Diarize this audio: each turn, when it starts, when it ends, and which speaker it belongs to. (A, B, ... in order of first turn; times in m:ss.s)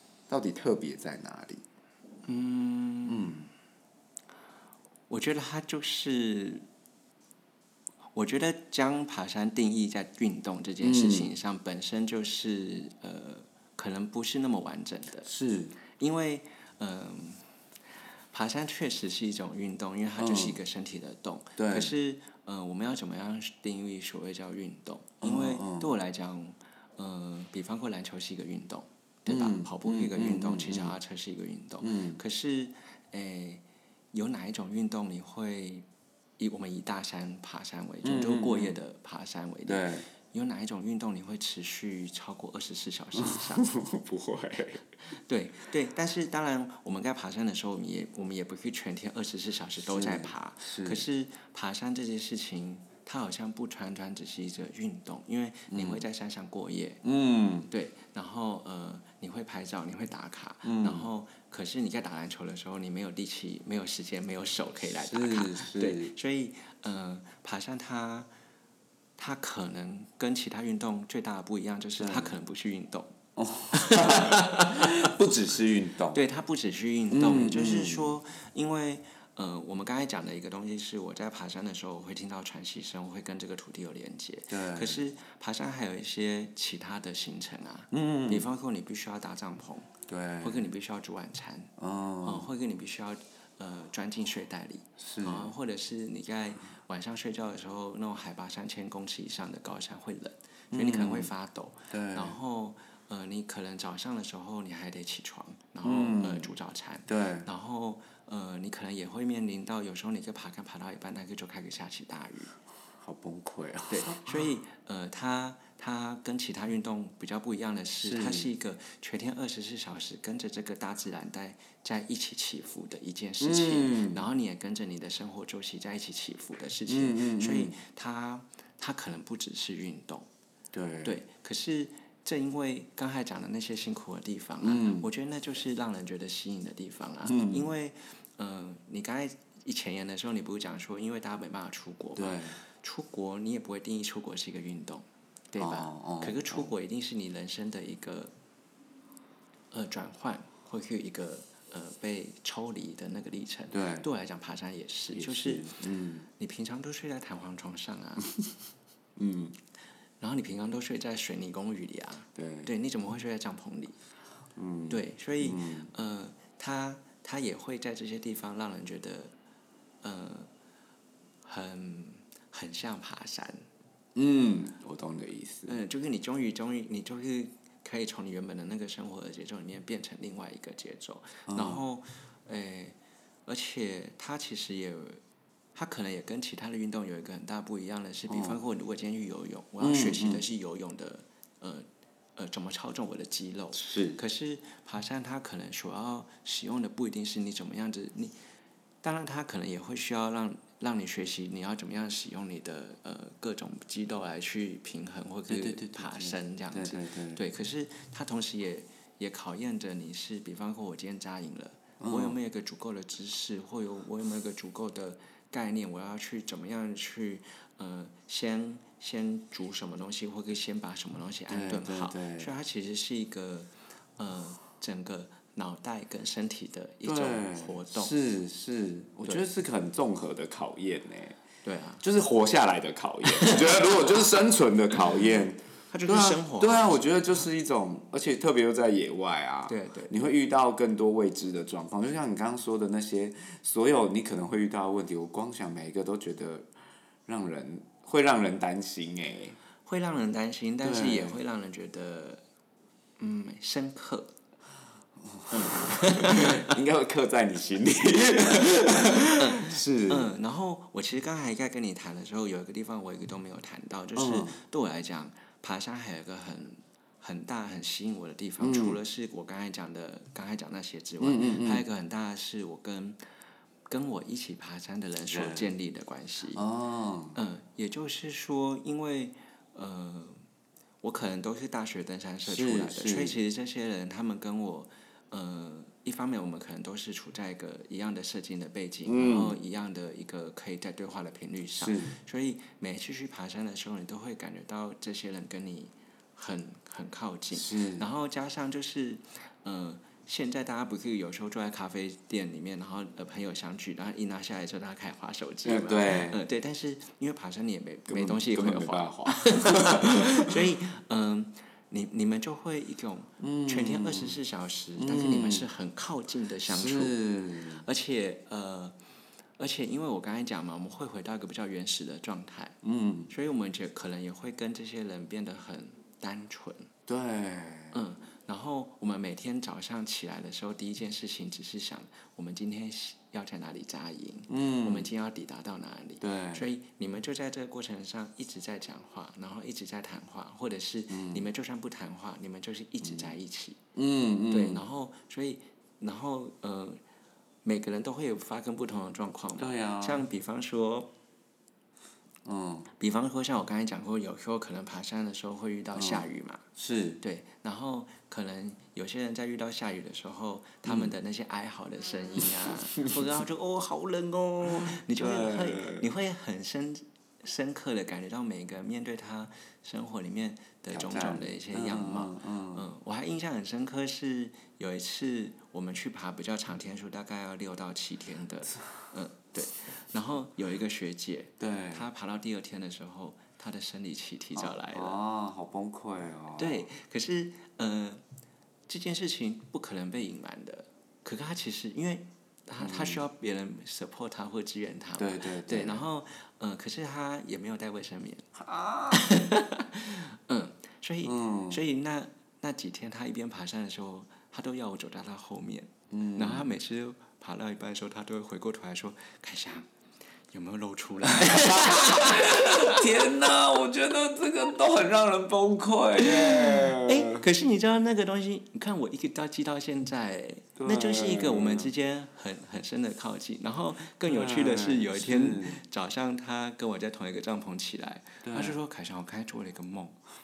0:00.3-0:01.6 A
0:02.2-0:03.4 B
0:03.0-0:03.5 A
0:05.1-0:06.6 B
0:08.1-0:15.3 B
0:10.8-0:11.3 A
0:15.2-0:15.7 A
0:16.0-0:17.4 B
0:18.3-0:35.8 B
0:20.2-0:20.6 A
0:21.6-0:21.9 A
0:25.2-0:25.9 A
0:29.3-0:31.0 A
0:31.8-0:32.2 A
0:36.4-0:43.7 B
0:38.0-0:38.8 A
0:39.6-0:40.0 A
0:43.2-0:44.8 A
0:45.1-0:57.0 B
0:49.8-0:51.0 A
0:55.7-0:56.0 A
0:57.0-0:57.7 A
0:57.7-1:08.3 B
1:00.6-1:01.1 A
1:05.0-1:06.1 A
1:09.2-1:13.1 B
1:12.0-1:12.3 A
1:13.4-1:16.2 A
1:13.7-1:15.1 B
1:16.1-1:29.9 B
1:17.1-1:18.1 A
1:24.5-1:25.0 A
1:27.9-1:28.5 A
1:30.1-1:30.7 A
1:30.4-1:31.7 B
1:31.8-1:32.5 A
1:32.2-1:52.5 B
1:35.0-1:35.5 A
1:40.7-1:41.3 A
1:41.9-1:42.4 A
1:45.8-1:46.5 A
1:47.1-1:47.5 A
1:53.0-1:54.5 A
1:53.9-2:10.3 B
1:58.0-1:58.5 A
2:03.4-2:04.2 A
2:06.9-2:07.7 A
2:10.7-2:11.2 A
2:11.0-2:28.3 B
2:14.6-2:15.1 A
2:17.2-2:17.7 A
2:22.2-2:22.6 A
2:25.6-2:26.7 A
2:29.7-2:35.7 B
2:33.7-2:34.1 A
2:35.1-2:36.3 A
2:36.4-2:38.4 B
2:39.2-2:39.5 A
2:40.2-2:44.0 B
2:42.3-2:42.7 A
2:44.6-2:45.9 A
2:44.9-2:49.3 B
2:50.0-2:50.5 B
2:51.4-2:53.6 B
2:54.2-2:55.8 A
2:55.7-3:02.9 B
3:01.5-3:01.8 A
3:03.4-3:05.2 B
3:05.7-3:11.8 B
3:08.3-3:08.6 A
3:09.8-3:10.4 A
3:12.4-3:18.3 B
3:13.7-3:14.2 A
3:19.0-3:48.1 B
3:25.5-3:27.4 A
3:32.0-3:32.4 A
3:41.5-3:42.5 A
3:47.0-3:51.4 A
3:51.6-3:52.0 B
3:52.0-4:06.7 A
3:53.2-3:54.4 B
3:55.9-3:57.4 B
3:59.7-4:00.3 B
4:07.3-4:09.6 A
4:09.8-4:12.4 B
4:10.8-4:11.4 A
4:13.2-4:14.3 B
4:15.2-4:20.3 A
4:15.5-4:16.8 B
4:19.0-4:33.2 B
4:24.2-4:24.6 A
4:28.6-4:29.0 A
4:31.2-4:31.8 A
4:33.9-4:36.6 B
4:35.3-4:35.7 A
4:36.5-4:37.4 A
4:37.3-4:40.4 B
4:41.0-5:17.2 B
4:42.4-4:43.4 A
4:49.0-4:49.5 A
4:51.8-4:52.2 A
4:57.5-4:58.0 A
5:05.6-5:06.4 A
5:08.1-5:10.5 A
5:13.4-5:14.4 A
5:15.0-5:15.6 A
5:16.6-5:17.8 A
5:17.7-5:19.0 B
5:19.6-5:22.8 B
5:22.8-5:23.3 A
5:23.3-5:26.9 B
5:27.1-5:28.0 A
5:27.9-5:43.8 B
5:34.5-5:35.1 A
5:36.2-5:36.6 A
5:41.1-5:41.4 A
5:43.0-5:43.3 A
5:43.9-5:44.8 A
5:44.5-5:47.0 B
5:47.6-5:51.1 B
5:49.6-5:50.2 A
5:52.4-5:52.9 A
5:53.0-5:56.6 B
5:55.9-5:56.2 A
5:56.8-5:57.2 A
5:57.2-6:25.2 B
6:00.8-6:01.1 A
6:02.4-6:03.2 A
6:04.6-6:06.1 A
6:10.9-6:12.8 A
6:21.6-6:22.1 A
6:24.6-6:26.9 A
6:26.6-6:28.2 B
6:28.9-6:38.5 B
6:32.8-6:33.2 A
6:35.2-6:36.0 A
6:38.5-6:39.3 A
6:39.1-6:49.9 B
6:41.2-6:41.8 A
6:46.1-6:46.7 A
6:50.5-6:53.1 B
6:51.3-6:57.4 A
6:56.2-7:10.2 B
7:00.8-7:01.9 A
7:04.2-7:05.8 A
7:08.4-7:08.8 A